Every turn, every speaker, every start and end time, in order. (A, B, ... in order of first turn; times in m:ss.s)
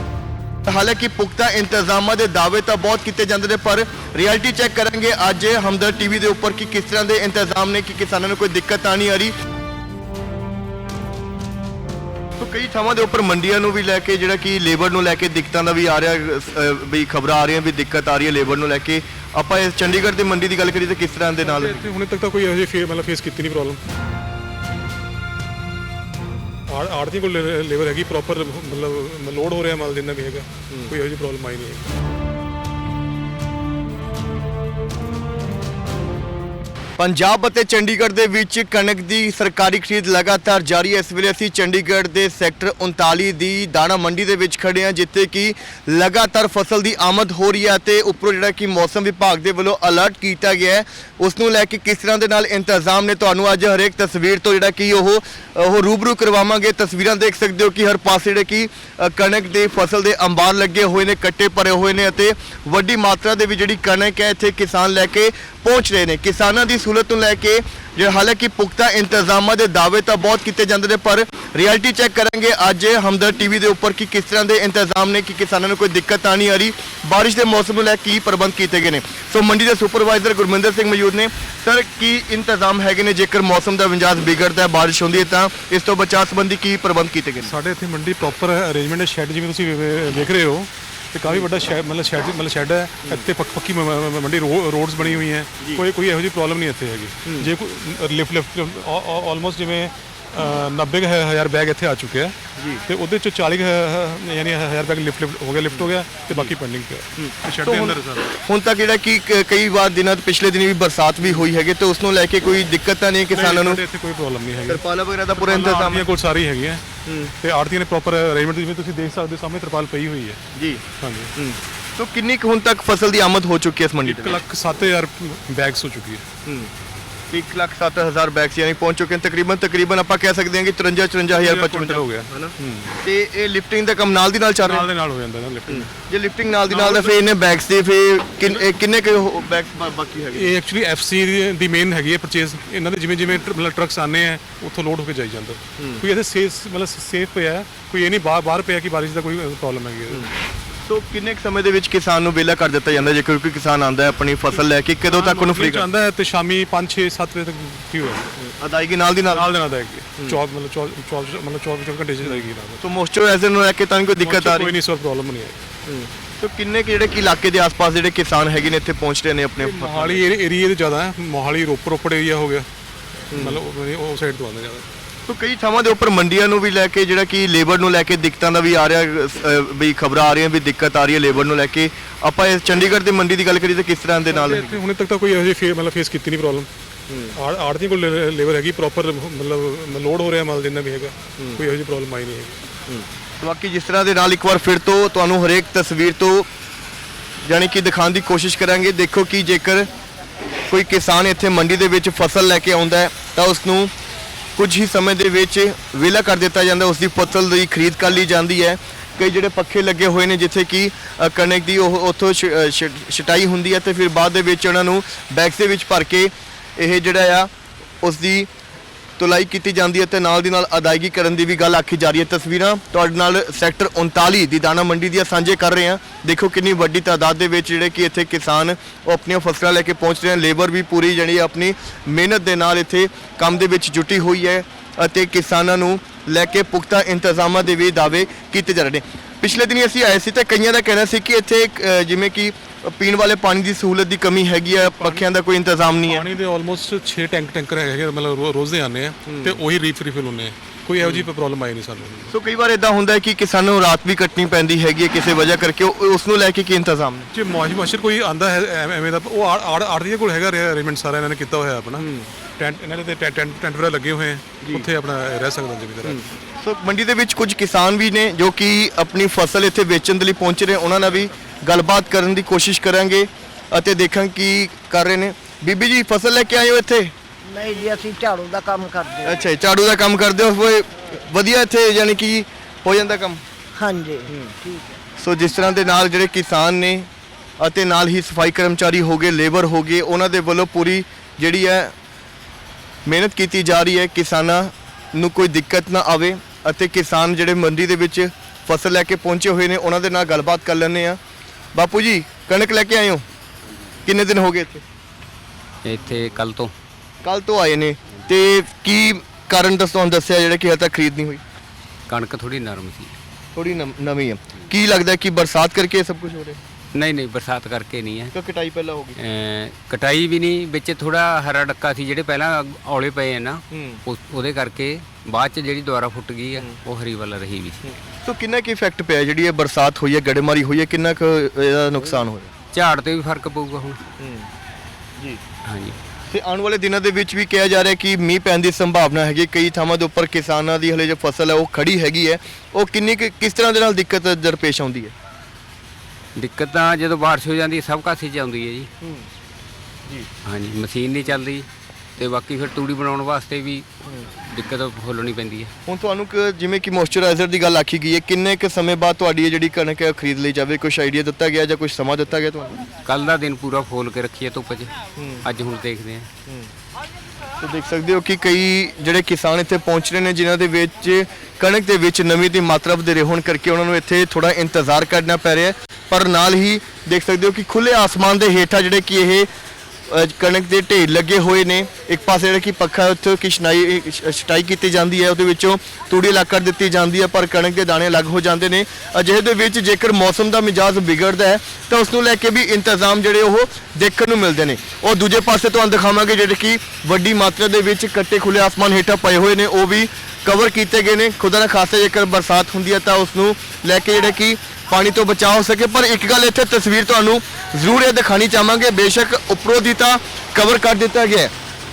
0:00.7-0:09.3 A
0:12.4-0:21.8 A
0:21.4-0:23.8 B
0:26.7-0:31.9 B
0:37.0-1:27.5 A
1:27.4-1:48.3 B
1:37.2-1:37.5 A
1:42.6-1:42.8 A
1:45.7-1:46.5 A
1:47.2-1:53.8 A
1:53.3-1:56.8 B
1:54.7-1:56.0 A
1:57.1-1:57.3 A
1:57.4-2:00.4 B
2:00.6-2:00.8 A
2:01.0-2:01.3 B
2:01.4-2:04.4 A
2:04.0-2:06.2 B
2:06.4-2:06.7 A
2:07.3-2:14.9 A
2:11.3-2:13.0 B
2:14.6-2:15.9 B
2:15.7-2:20.6 A
2:16.7-2:17.2 B
2:20.3-2:30.3 B
2:25.8-2:26.0 A
2:30.8-2:35.9 A
2:35.1-2:38.4 B
2:38.4-2:39.5 A
2:39.3-2:42.8 B
2:42.2-2:44.7 A
2:44.2-2:45.6 B
2:45.9-2:50.2 A
2:49.6-2:52.7 B
2:53.3-2:53.6 A
2:53.3-2:54.9 B
2:55.3-3:04.7 A
3:04.3-3:06.7 B
3:07.1-3:07.4 A
3:07.3-3:12.6 B
3:12.9-3:16.5 A
3:17.4-3:19.9 A
3:20.7-3:23.9 A
3:24.6-3:37.5 A
3:38.0-3:38.5 A
3:39.2-4:06.3 A
4:05.0-4:05.3 B
4:06.1-4:12.3 B
4:09.3-4:09.6 A
4:11.0-4:11.3 A
4:12.3-4:17.3 A
4:17.3-4:22.1 B
4:22.0-4:22.3 A
4:22.6-4:26.2 B
4:26.0-4:37.1 A
4:37.4-4:39.4 C
4:39.2-4:43.4 A
4:43.8-4:45.0 C
4:44.3-4:44.6 A
4:45.2-4:47.1 A
4:47.6-4:51.9 A
4:53.1-5:01.2 A
5:01.7-5:03.2 A
5:04.0-5:04.8 A
5:05.8-5:06.7 D
5:07.2-5:11.4 A
5:12.1-5:13.1 D
5:13.6-5:16.6 A
5:16.9-5:18.3 D
5:18.3-5:19.2 A
5:19.2-5:27.8 D
5:23.7-5:24.0 A
5:27.8-5:32.5 A
5:32.7-5:34.0 D
5:34.2-5:34.5 A
5:35.6-5:36.0 D
5:36.3-5:45.1 A
5:46.4-5:48.9 D
5:49.0-5:49.3 A
5:50.4-5:55.7 D
5:55.9-6:02.8 A
6:03.0-6:06.3 D
6:05.2-6:05.5 A
6:07.6-6:19.5 A
6:20.1-6:51.5 A